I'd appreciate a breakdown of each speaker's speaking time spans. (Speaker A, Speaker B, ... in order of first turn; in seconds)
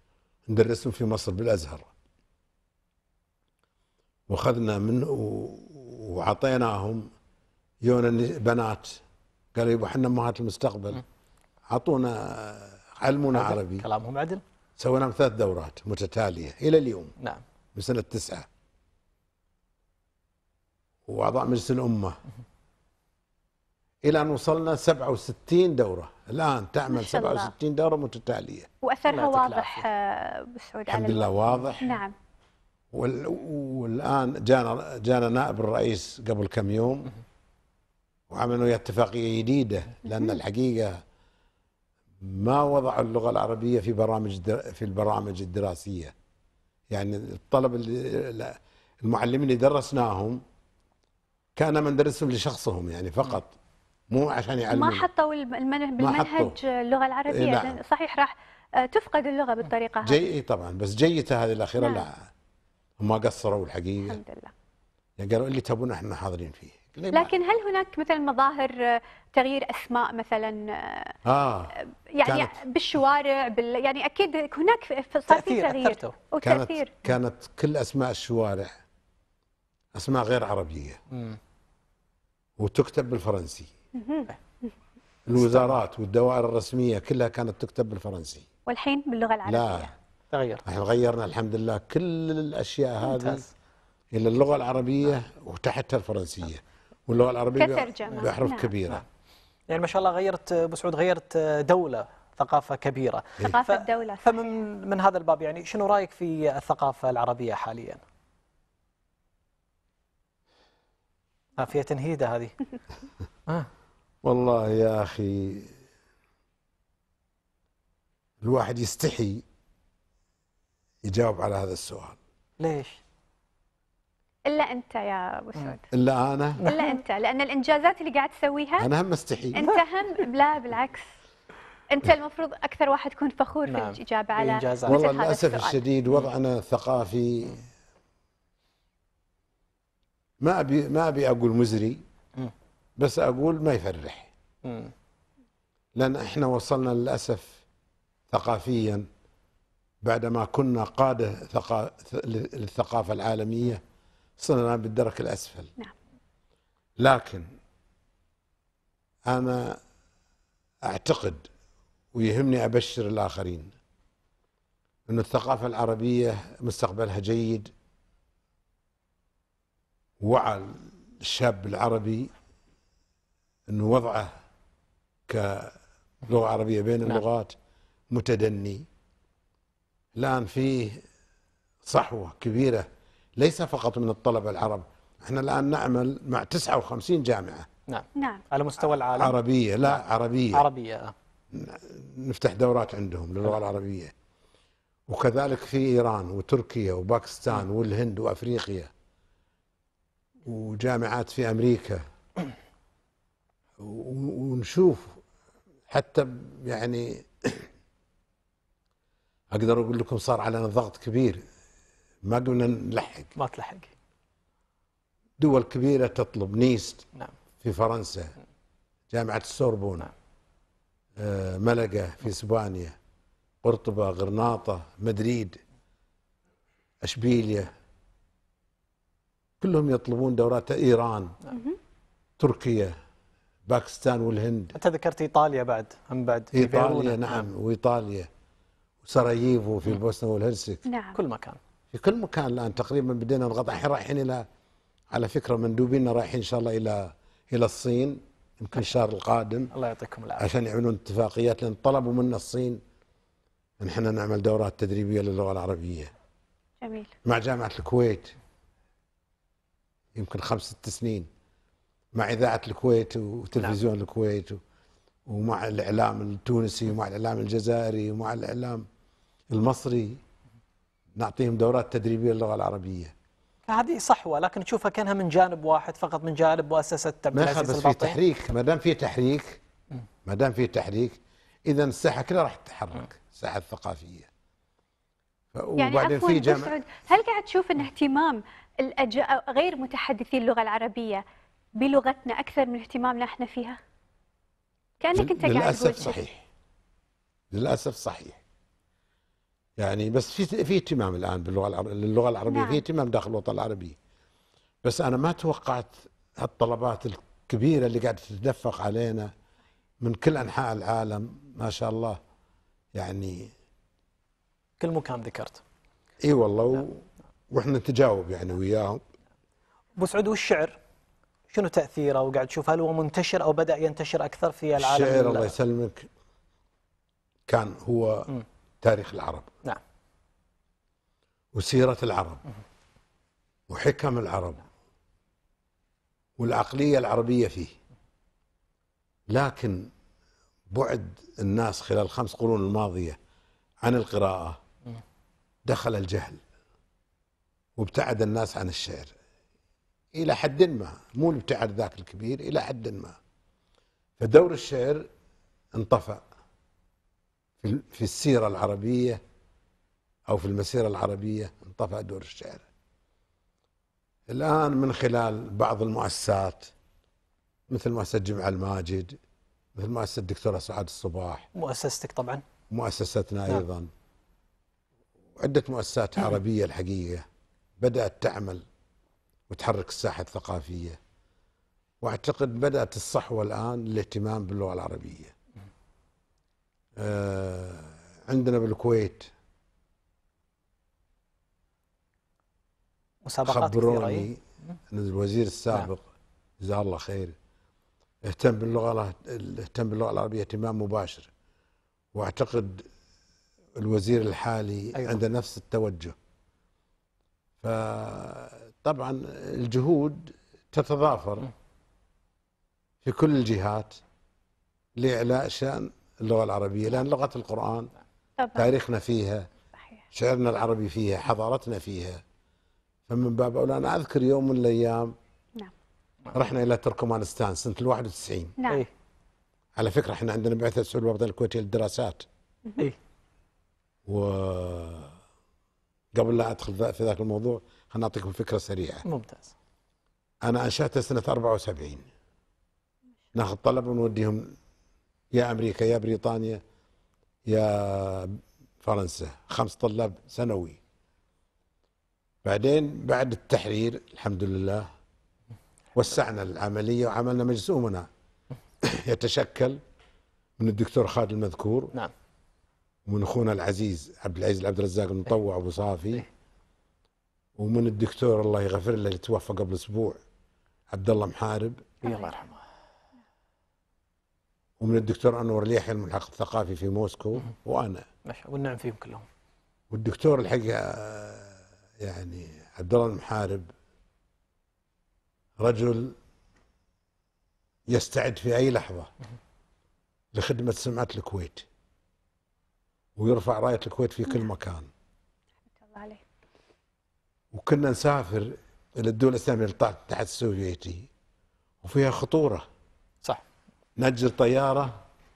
Speaker A: 0.5-1.9, 4.3-7.1, 7.8-9.0, 9.5-11.0, 11.7-13.9, 14.8-17.1, 17.7-18.5, 21.1-22.2, 24.0-28.7, 30.9-32.0, 32.9-37.1, 38.3-41.0, 42.2-46.1, 46.9-50.4, 51.5-53.5, 54.1-55.1, 56.0-56.6, 57.3-57.8, 60.0-62.2, 63.0-64.2, 65.2-67.3, 71.2-72.6, 76.4-78.7, 79.9-81.0, 82.6-83.7, 85.3-88.5, 89.4-89.9, 90.6-93.4, 94.1-99.0, 114.2-115.7, 118.4-119.4, 121.0-122.2, 125.9-126.6, 128.8-129.6, 134.9-137.6, 140.4-142.0, 143.0-144.3, 145.9-147.6, 148.3-149.1, 150.0-153.8, 154.4-155.7, 157.0-157.5, 159.3-159.8, 160.8-161.5, 162.1-163.7, 165.1-167.7, 170.2-172.3, 173.7-174.3, 175.3-177.6, 178.1-178.8, 180.2-181.0, 181.8-182.8, 183.4-187.7, 189.1-190.7, 191.5-194.1, 195.1-198.9, 200.4-202.0, 203.8-205.2, 205.9-207.7, 209.5-211.4, 212.2-213.3, 215.4-217.1, 217.6-218.3, 219.1-220.1, 221.2-222.9, 223.6-225.6, 227.0-227.7, 229.6-231.4, 232.4-232.9, 233.7-234.8, 236.5-238.3, 239.0-240.8, 241.9-244.4, 245.1-249.7, 250.4-252.8, 253.8-256.1, 257.2-258.3, 260.1-261.3, 262.1-264.6, 265.3-268.9, 269.5-270.2, 271.1-273.1, 277.3-279.6, 280.2-284.3, 285.5-286.7, 295.1-296.4, 297.5-298.4, 299.8-304.0, 304.8-309.3, 310.0-312.2, 312.9-313.5, 316.2-319.0, 324.8-326.1, 327.5-329.5, 331.5-332.4, 333.7-334.6, 336.4-337.7, 339.3-339.9, 340.7-343.2, 343.8-344.6, 345.6-346.4, 347.8-349.1, 350.1-353.2, 354.2-355.1, 355.7-356.2, 357.6-359.2, 360.3-362.6, 364.3-366.7, 367.7-369.2, 369.7-371.5, 372.7-373.9, 375.4-377.2, 377.8-378.6, 379.5-381.0, 382.0-385.3, 387.0-389.3, 393.4-396.0, 396.6-397.3, 398.2-401.3, 402.1-402.9, 403.7-406.1, 407.6-411.5, 413.0-414.0, 415.0-417.9, 418.6-419.5, 420.1-422.2, 423.1-425.1, 426.3-428.6, 429.8-432.2, 434.1-435.1, 436.1-439.0, 440.4-442.1, 443.3-444.6, 445.3-446.6, 447.4-450.8, 452.4-454.9, 455.9-458.1, 458.8-459.8, 460.6-461.9, 463.1-466.2, 467.6-470.2, 470.9-472.0, 474.8-478.1, 479.9-483.7, 485.6-486.1, 487.9-489.1, 490.3-491.6, 493.1-494.9, 497.5-501.1, 501.8-502.6, 504.0-505.0
Speaker B: 13.3-14.4, 29.1-29.9, 75.3-76.1, 81.1-81.4, 85.3-85.8, 90.3-90.6, 93.0-93.5, 99.7-108.0, 111.6-112.5, 122.6-123.0, 126.6-127.0, 133.7-135.0, 144.6-144.9, 187.9-189.4, 190.5-191.1, 213.3-213.9, 234.7-237.5, 241.1-241.6, 249.7-250.5, 273.7-278.2, 314.8-315.6, 320.0-320.8, 321.5-325.5, 371.5-372.4, 393.2-394.3, 439.0-439.5, 472.0-472.6, 478.2-479.3
Speaker C: 26.9-27.5, 28.8-32.1, 54.7-60.2, 61.8-62.0, 64.1-64.5, 67.1-71.2, 72.1-76.9, 83.9-84.7, 88.7-89.9, 97.5-98.7, 103.4-104.6, 124.5-125.8, 126.6-128.9, 129.5-131.1, 131.9-135.8, 188.1-188.4, 231.5-231.8, 240.8-241.2, 256.8-257.1, 285.8-291.2, 291.8-293.8, 295.0-296.2, 302.5-302.8, 418.4-418.7, 428.6-428.8, 472.0-472.3, 495.8-496.2